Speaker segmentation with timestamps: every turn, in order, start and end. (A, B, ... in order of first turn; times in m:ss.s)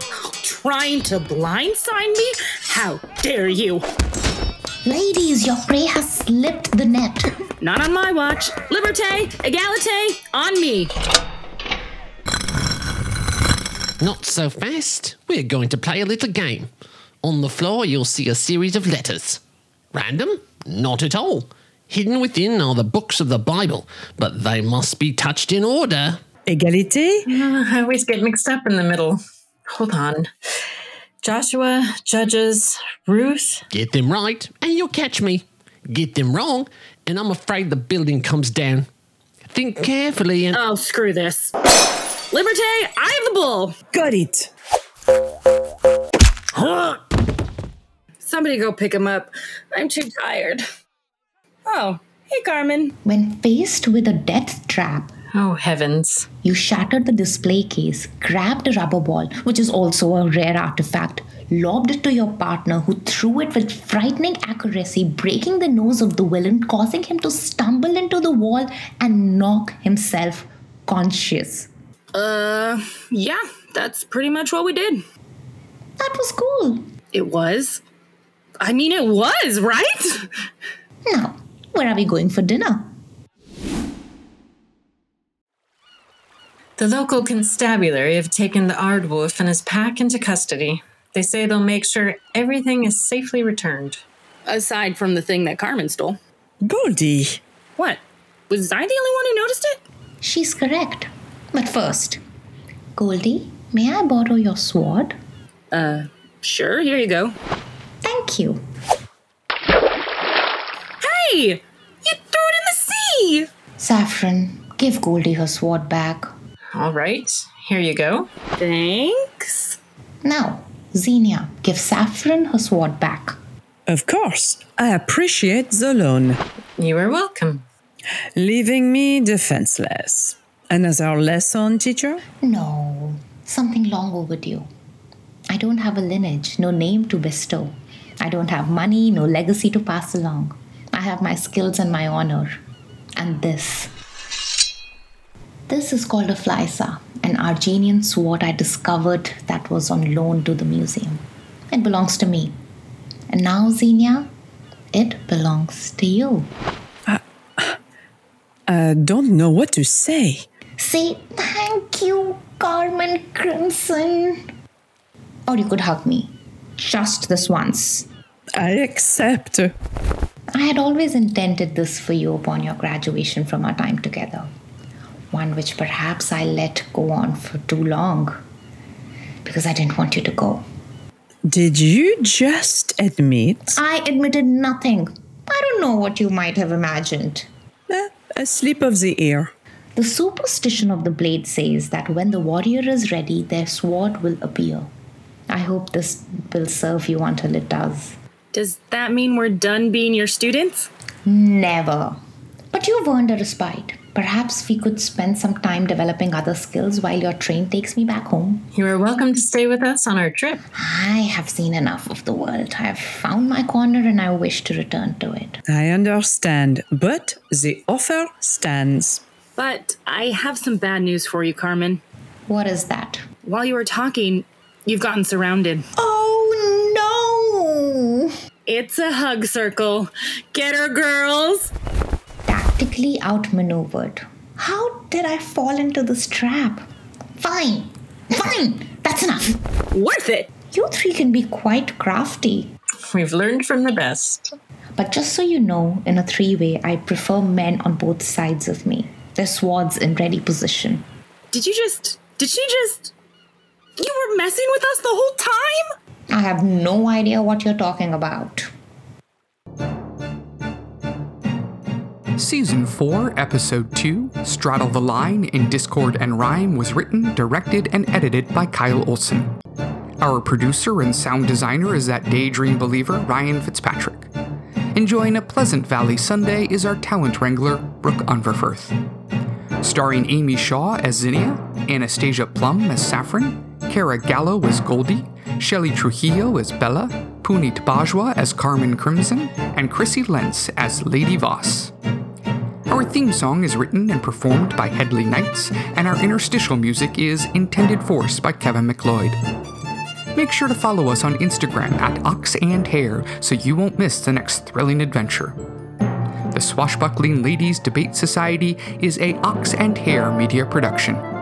0:00.3-0:03.8 A
0:04.8-0:07.3 B
0:07.6-0:10.9 A
0:14.0-0:16.6 C
0:17.2-0:19.4 C
0:19.9-0:26.1 C
0:26.4-0:27.3 D
0:27.2-0:29.2 E
0:29.7-0:30.3 E
0:31.2-0:33.6 E
0:33.7-0:38.8 C
0:39.5-0:40.6 C
0:40.5-0:41.5 A
0:42.3-0:43.8 A
0:43.9-0:44.5 D
0:48.2-0:50.6 A
0:51.6-0:53.0 A
0:53.0-0:55.1 B
0:55.3-0:56.3 E
0:56.4-1:11.7 B
1:12.1-1:15.0 A
1:16.0-1:16.9 B
1:17.1-1:17.8 A
1:18.6-1:20.3 A
1:21.1-1:22.9 B
1:26.8-1:34.0 E
1:34.4-1:36.2 A
1:36.6-1:37.4 D
1:37.8-1:39.8 A
1:40.2-1:42.2 B
1:43.0-1:45.1 B
1:45.7-1:47.4 A
1:48.0-1:48.6 B
1:51.0-1:53.5 A
1:53.8-1:56.3 B
1:56.7-1:58.3 E
1:58.6-1:59.8 A
2:00.2-2:03.4 B
2:03.8-2:06.4 D
2:06.8-2:07.6 E
2:08.4-2:12.2 D
2:12.4-2:14.7 B
2:15.5-2:22.5 B
2:23.2-2:23.9 B
2:25.7-2:31.2 B
2:31.7-2:32.6 B
2:33.3-2:34.3 B
2:34.9-2:36.5 B
2:37.1-2:37.8 D
2:38.7-2:40.4 D
2:40.8-2:44.4 B
2:45.5-2:48.1 B
2:48.6-2:49.7 D
2:50.5-2:54.5 B
2:55.3-2:58.4 B
2:59.4-3:00.6 B
3:01.4-3:03.8 D
3:03.7-3:07.5 B
3:07.9-3:09.5 D
3:10.0-3:14.9 B
3:15.5-3:18.2 B
3:18.5-3:20.9 A
3:21.2-3:22.2 B
3:22.7-3:28.7 B
3:28.7-3:30.6 E
3:30.7-3:35.6 B
3:35.6-3:39.2 D
3:39.6-3:42.0 A
3:42.5-3:43.2 B
3:43.4-3:45.8 A
3:46.0-3:48.3 B
3:48.7-3:51.7 A
3:52.5-3:56.8 B
3:57.4-3:59.6 B
3:59.9-4:00.5 A
4:00.7-4:02.7 B
4:03.1-4:04.5 E
4:05.0-4:11.0 B
4:11.5-4:13.1 A
4:14.0-4:15.8 A
4:16.3-4:18.7 B
4:22.4-4:29.5 F
4:30.2-4:34.3 F
4:34.9-4:38.9 F
4:39.8-4:51.9 F
4:52.9-4:59.4 F
5:00.3-5:05.6 F
5:06.5-5:11.2 F